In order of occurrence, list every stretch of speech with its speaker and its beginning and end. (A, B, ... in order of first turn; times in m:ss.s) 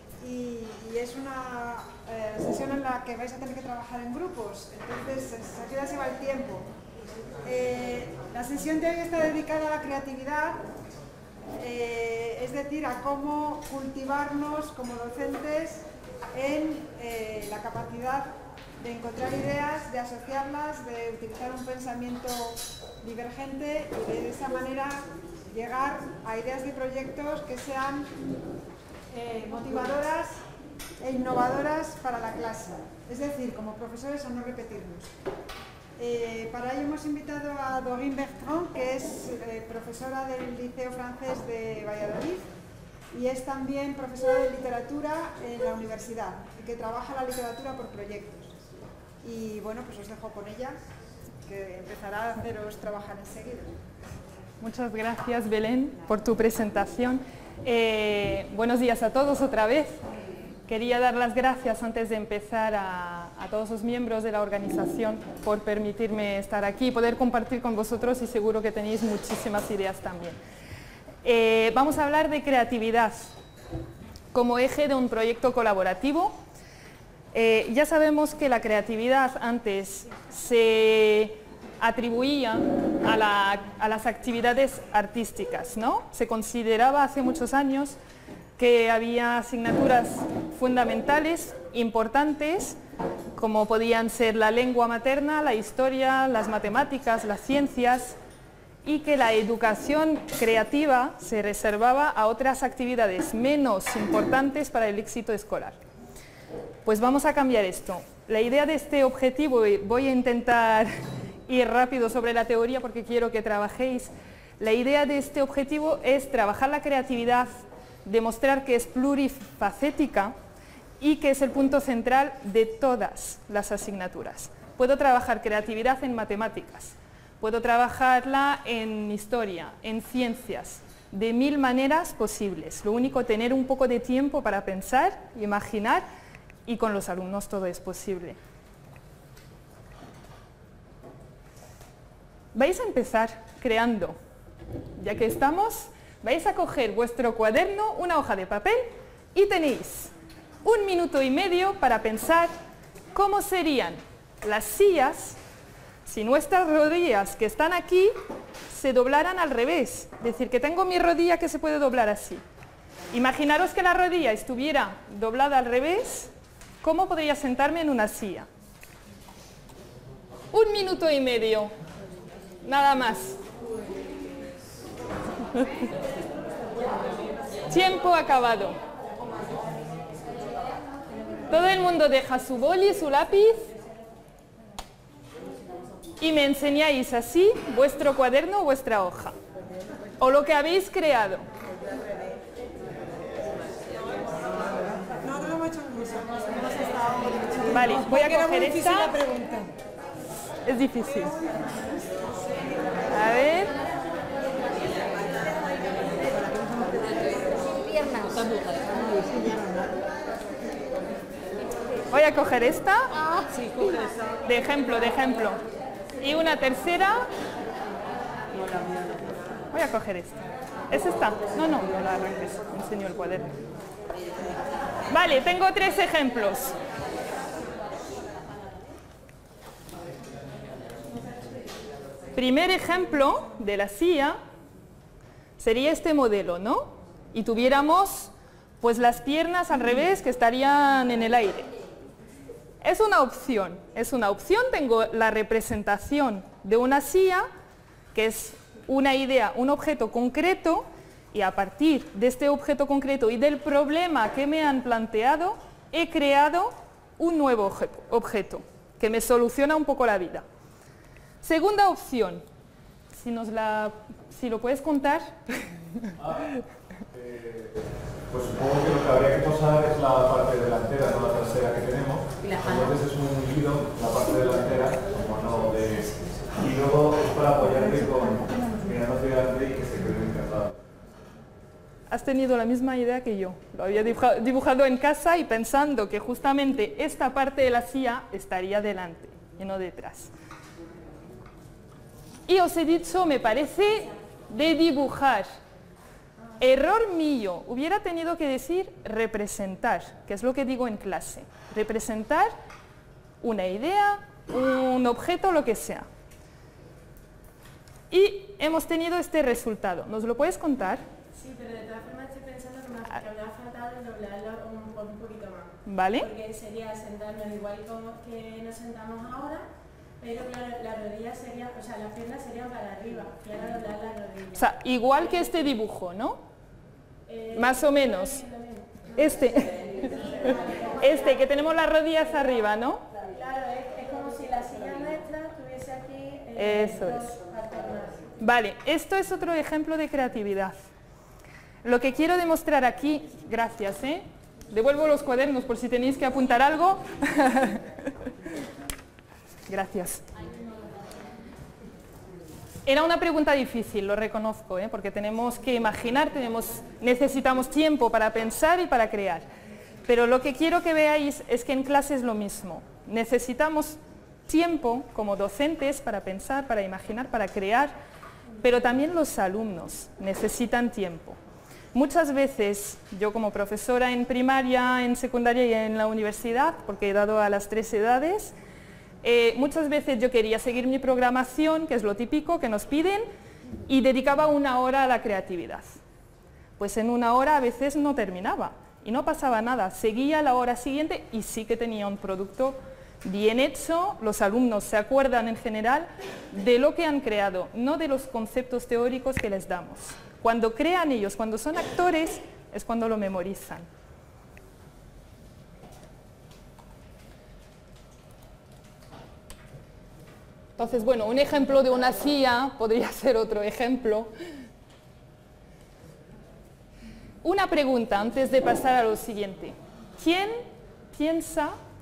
0:00.2-0:06.7 A
0:07.4-0:10.6 A
0:11.5-0:18.3 A
0:18.8-0:28.1 A
0:29.1-0:30.4 A
0:31.0-0:35.1 A
0:36.0-0:42.5 A
0:43.1-0:48.5 A
0:49.2-0:50.8 A
0:51.4-0:53.8 A
0:54.6-1:00.0 B
1:00.7-1:10.4 B
1:11.2-1:13.3 B
1:14.3-1:16.4 B
1:17.3-1:28.0 B
1:28.6-1:32.8 B
1:33.4-1:38.2 B
1:38.8-1:45.8 B
1:46.8-1:50.9 B
1:51.5-2:00.3 B
2:01.0-2:16.0 B
2:16.6-2:18.4 B
2:22.5-2:24.2 B
2:25.0-2:30.1 B
2:30.6-2:32.5 B
2:33.1-2:35.4 B
2:36.0-2:38.1 B
2:38.7-2:42.4 B
2:43.1-2:46.3 B
2:46.8-2:48.5 B
2:50.5-2:51.7 B
2:52.6-2:53.4 B
2:57.7-2:58.8 B
3:01.5-3:03.7 B
3:06.2-3:09.3 B
3:10.2-3:11.4 B
3:15.2-3:19.7 A
3:17.7-3:19.2 B
3:20.6-3:21.3 B
3:21.4-3:23.1 A
3:23.1-3:23.7 B
3:26.2-3:27.1 A
3:32.1-3:33.3 B
3:34.4-3:35.6 B
3:36.2-3:37.3 B
3:39.7-3:43.5 B
3:45.1-3:46.7 B
3:52.4-3:54.4 B
3:55.6-4:01.7 B
4:02.8-4:07.5 B
4:08.1-4:20.4 B
4:21.4-4:22.4 B
4:23.1-4:25.6 B
4:26.2-4:26.6 C
4:27.1-4:27.7 C
4:28.3-4:40.7 C
4:42.1-4:50.3 B
4:52.5-4:55.5 B
4:56.6-5:02.5 B
5:03.4-5:06.1 B
5:08.1-5:11.0 B
5:11.3-5:19.6 D
5:15.8-5:16.3 B
5:20.2-5:24.6 D
5:24.6-5:26.4 B
5:27.3-5:29.1 D
5:27.5-5:28.4 B
5:29.2-5:33.0 B
5:30.0-5:31.4 D
5:33.2-5:38.3 D
5:36.6-5:37.3 B
5:38.4-5:40.8 B
5:41.8-5:48.1 B
5:49.7-5:50.3 B
5:52.8-5:59.5 B
6:00.1-6:07.9 B
6:08.6-6:11.4 B
6:11.9-6:18.5 B
6:19.2-6:23.3 B
6:23.9-6:26.0 B
6:26.8-6:43.9 B
6:50.8-6:54.3 B
6:57.4-7:01.8 B